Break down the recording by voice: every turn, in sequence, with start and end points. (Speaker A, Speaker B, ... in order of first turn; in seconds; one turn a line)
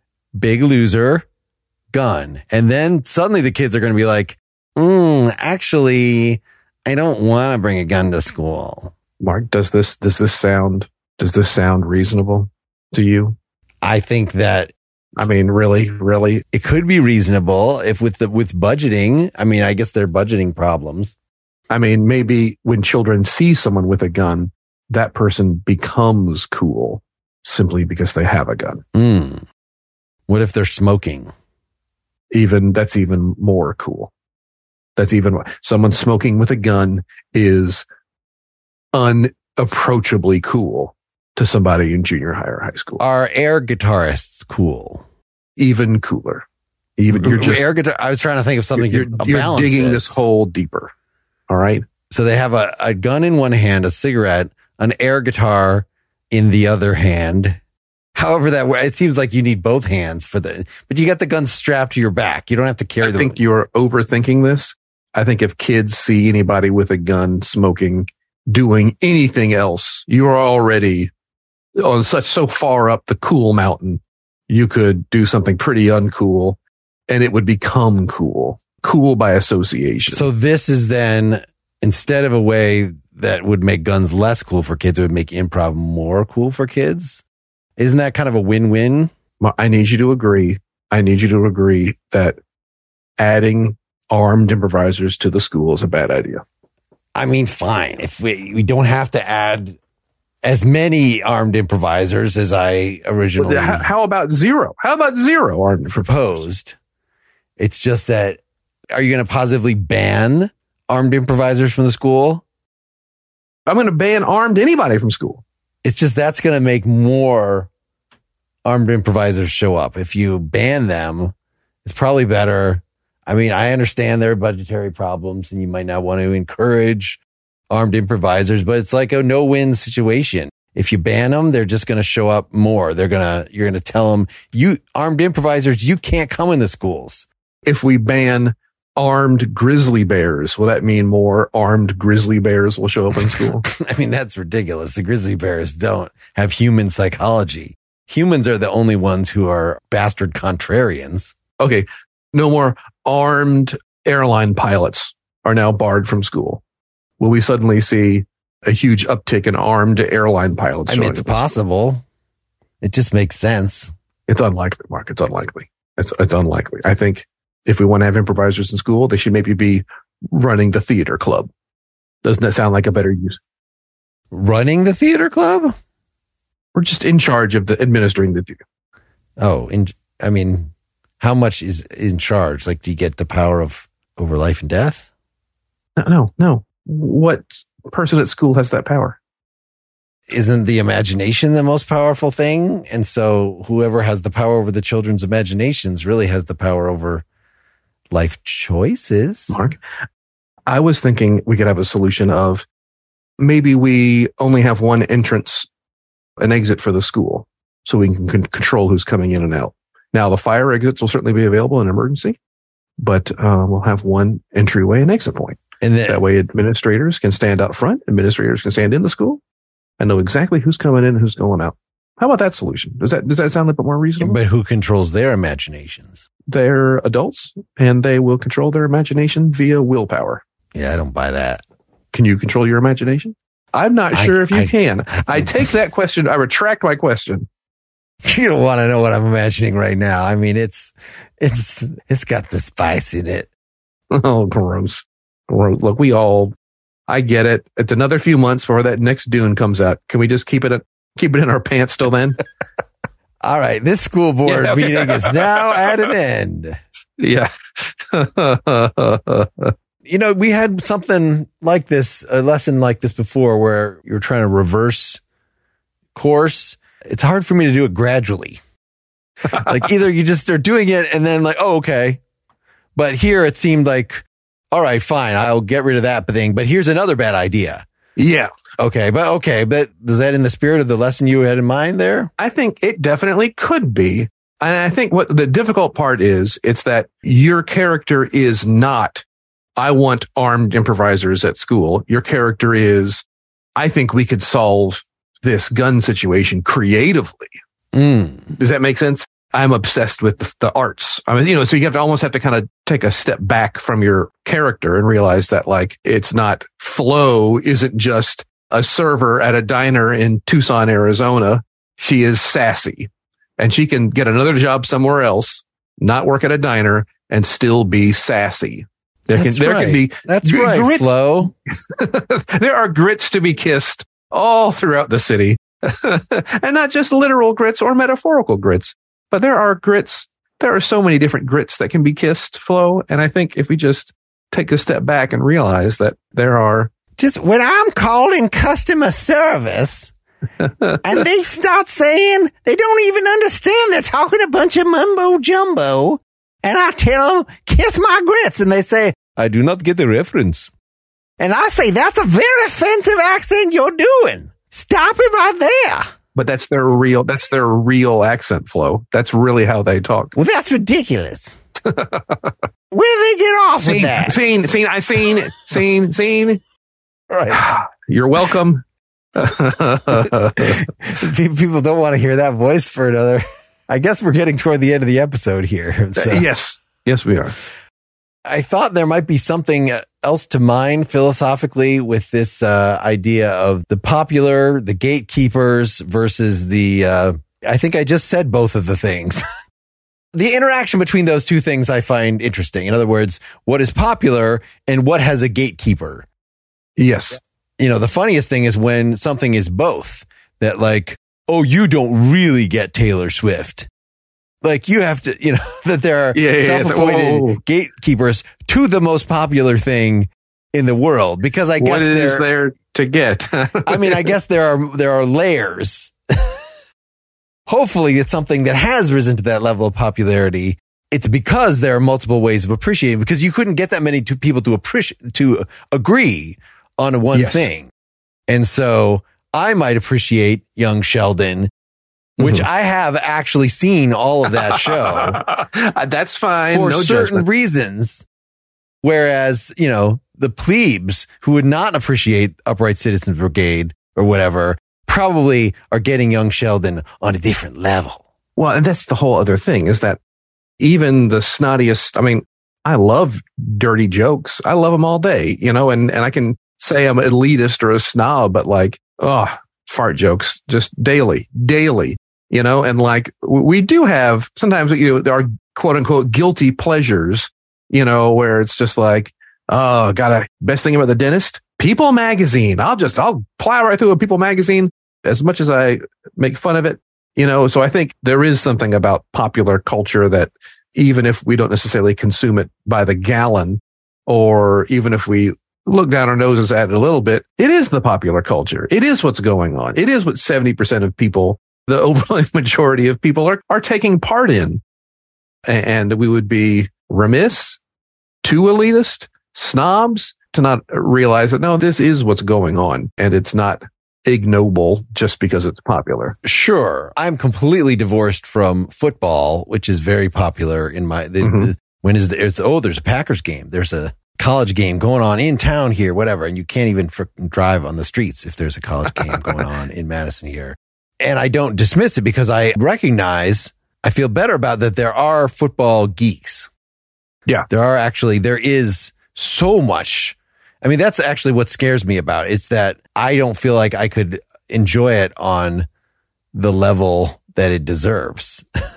Speaker A: 0.3-1.2
Speaker A: 1.9-8.9
Speaker B: 9.2-13.4
Speaker A: 13.8-14.7
Speaker B: 15.2-16.4
Speaker A: 16.5-21.1
Speaker B: 21.7-28.8
Speaker A: 28.9-29.4
Speaker A: 30.3-31.3
Speaker B: 32.3-34.1
Speaker B: 35.0-37.8
Speaker B: 38.9-43.0
Speaker A: 43.0-45.0
Speaker B: 45.6-46.5
Speaker B: 47.0-47.6
Speaker A: 47.1-50.2
Speaker B: 48.8-50.9
Speaker B: 51.5-51.8
Speaker A: 52.1-57.6
Speaker A: 58.1-63.4
Speaker B: 63.0-71.1
Speaker B: 71.8-76.6
Speaker B: 77.1-80.3
Speaker A: 80.1-87.2
Speaker A: 87.8-89.1
Speaker B: 89.4-92.4
Speaker B: 93.2-96.4
Speaker A: 97.1-99.8
Speaker A: 100.4-103.8
Speaker B: 103.4-106.0
Speaker A: 105.9-106.8
Speaker A: 107.6-108.4
Speaker A: 108.9-112.4
Speaker B: 113.7-115.4
Speaker A: 115.8-117.7
Speaker A: 118.6-121.3
Speaker A: 121.8-137.2
Speaker B: 137.6-143.6
Speaker A: 143.2-151.3
Speaker B: 151.6-156.6
Speaker B: 157.2-161.5
Speaker A: 160.9-162.0
Speaker A: 162.8-163.9
Speaker B: 164.3-171.5
Speaker B: 172.2-173.4
Speaker A: 174.3-175.7
Speaker B: 176.7-178.6
Speaker A: 179.4-185.1
Speaker B: 186.0-189.2
Speaker A: 190.3-197.2
Speaker A: 198.1-199.6
Speaker B: 199.5-199.8
Speaker B: 200.7-202.7
Speaker B: 203.4-205.7
Speaker B: 206.4-212.4
Speaker B: 213.0-219.4
Speaker A: 215.8-216.2
Speaker B: 220.0-224.4
Speaker A: 224.2-226.2
Speaker B: 226.5-230.4
Speaker A: 230.7-231.6
Speaker B: 232.1-237.5
Speaker A: 234.1-235.6
Speaker A: 238.2-243.5
Speaker B: 244.1-246.6
Speaker B: 247.1-252.4
Speaker A: 253.4-256.8
Speaker B: 254.4-255.8
Speaker B: 257.2-259.7
Speaker A: 260.1-265.2
Speaker A: 266.1-268.6
Speaker A: 269.5-272.2
Speaker A: 272.9-277.8
Speaker B: 278.1-278.5
Speaker A: 278.8-282.3
Speaker B: 282.4-289.2
Speaker B: 289.8-293.2
Speaker B: 293.8-297.5
Speaker A: 297.9-298.5
Speaker B: 298.6-321.1
Speaker A: 319.4-321.5
Speaker B: 321.9-336.9
Speaker A: 337.2-340.1
Speaker B: 340.6-341.0
Speaker A: 341.0-350.7
Speaker A: 351.4-356.1
Speaker B: 356.3-360.3
Speaker A: 360.3-361.6
Speaker B: 361.9-362.4
Speaker A: 362.9-364.4
Speaker B: 363.8-366.6
Speaker A: 367.3-367.7
Speaker B: 367.5-368.8
Speaker B: 369.4-370.9
Speaker A: 370.6-376.5
Speaker B: 376.1-377.5
Speaker A: 378.4-389.4
Speaker A: 390.3-396.3
Speaker B: 397.0-397.4
Speaker A: 397.8-403.9
Speaker A: 404.6-412.4
Speaker B: 406.3-407.6
Speaker B: 411.8-414.3
Speaker A: 413.9-416.6
Speaker A: 417.7-427.9
Speaker B: 427.3-427.6
Speaker A: 428.5-431.7
Speaker B: 432.4-432.6
Speaker A: 432.4-435.4
Speaker B: 434.7-437.4
Speaker A: 436.7-438.2
Speaker A: 439.0-448.2
Speaker B: 448.6-450.2
Speaker B: 450.8-494.8
Speaker B: 495.6-497.8
Speaker B: 498.4-506.4
Speaker A: 506.4-526.7
Speaker B: 511.4-511.7
Speaker B: 519.3-519.6
Speaker A: 527.7-535.9
Speaker A: 536.5-538.6